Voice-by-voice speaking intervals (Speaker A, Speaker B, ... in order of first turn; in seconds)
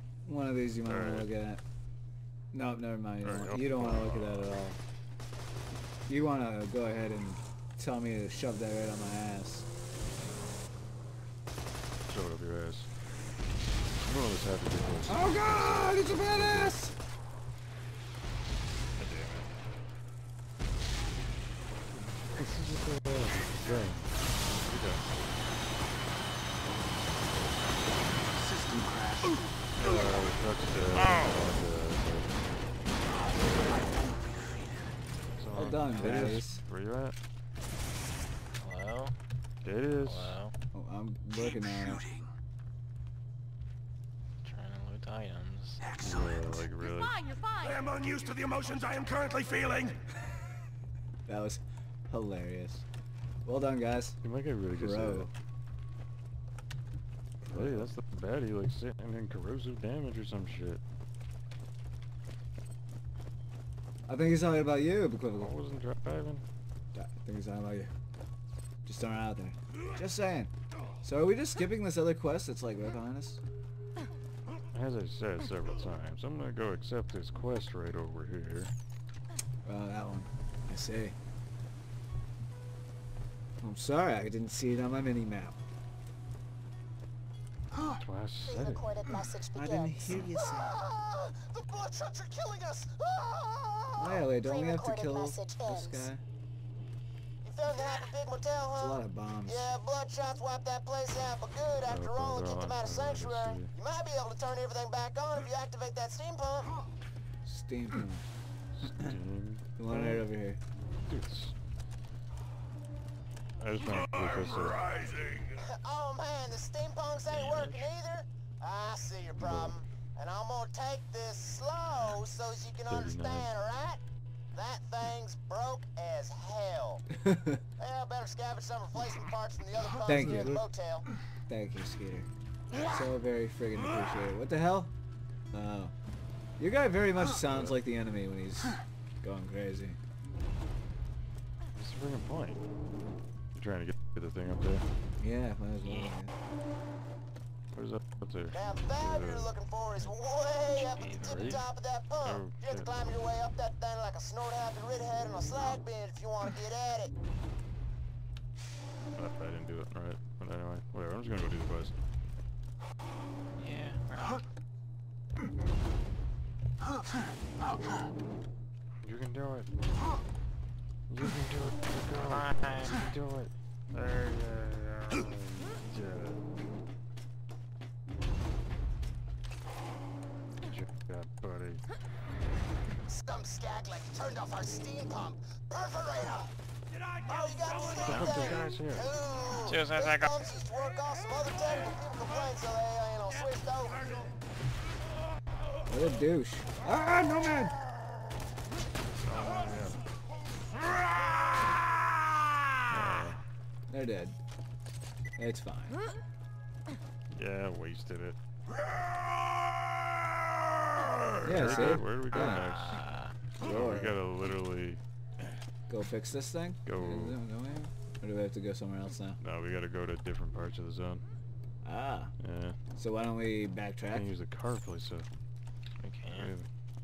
Speaker A: 0.2-1.6, 2.5-4.8, 6.1-9.7, 15.1-16.9, 35.5-36.6, 40.7-42.1, 51.3-52.8, 53.4-54.2, 54.7-55.3, 57.4-57.9, 64.1-65.5, 66.9-67.9, 68.8-70.5, 71.0-73.4, 79.6-81.1, 83.6-85.5, 89.5-90.8, 94.0-96.2, 98.8-99.7, 107.4-108.2, 109.8-110.6, 127.2-127.6, 130.1-130.6, 131.5-134.9, 135.5-135.9, 136.6-140.0, 145.2-146.3, 195.9-197.8, 203.9-204.3, 205.4-206.0, 211.4-212.6, 213.6-214.2, 215.9-219.4, 221.8-222.3, 222.9-224.3
Speaker B: 0.8-1.3, 3.2-4.5, 12.1-12.9, 14.0-16.7, 19.0-19.5, 21.9-25.1, 29.8-32.4, 35.4-37.1, 39.6-40.4, 46.0-47.2, 54.2-55.3, 57.5-60.8, 65.3-66.4, 74.7-78.7, 88.0-88.9, 101.8-103.7, 108.8-110.3, 111.0-111.5, 113.6-115.0, 119.4-119.7, 122.9-123.5, 130.1-130.6, 137.4-137.8, 141.7-142.6, 143.5-144.8, 147.7-149.5, 151.2-151.6, 152.2-152.9, 159.1-161.9, 169.0-169.7, 171.1-176.4, 180.7-181.8, 188.0-189.1, 199.2-200.0, 202.9-203.4, 207.3-208.4, 211.4-213.0, 213.6-215.0, 216.8-217.4, 219.4-221.2, 222.4-222.8, 224.1-225.3, 226.2-226.7
Speaker C: 30.9-31.5, 35.9-36.4, 38.6-39.1, 39.9-40.5, 44.4-45.9, 117.3-117.9, 145.8-146.1, 150.0-151.6, 163.6-164.4, 172.3-173.0, 189.6-190.5, 212.3-213.3, 226.0-226.5
Speaker D: 46.8-49.8
Speaker E: 88.4-90.2, 94.3-96.1
Speaker F: 90.3-94.3, 97.4-106.7, 115.5-124.0, 124.5-127.0, 127.8-131.1, 148.5-157.1, 183.1-186.5, 187.2-194.3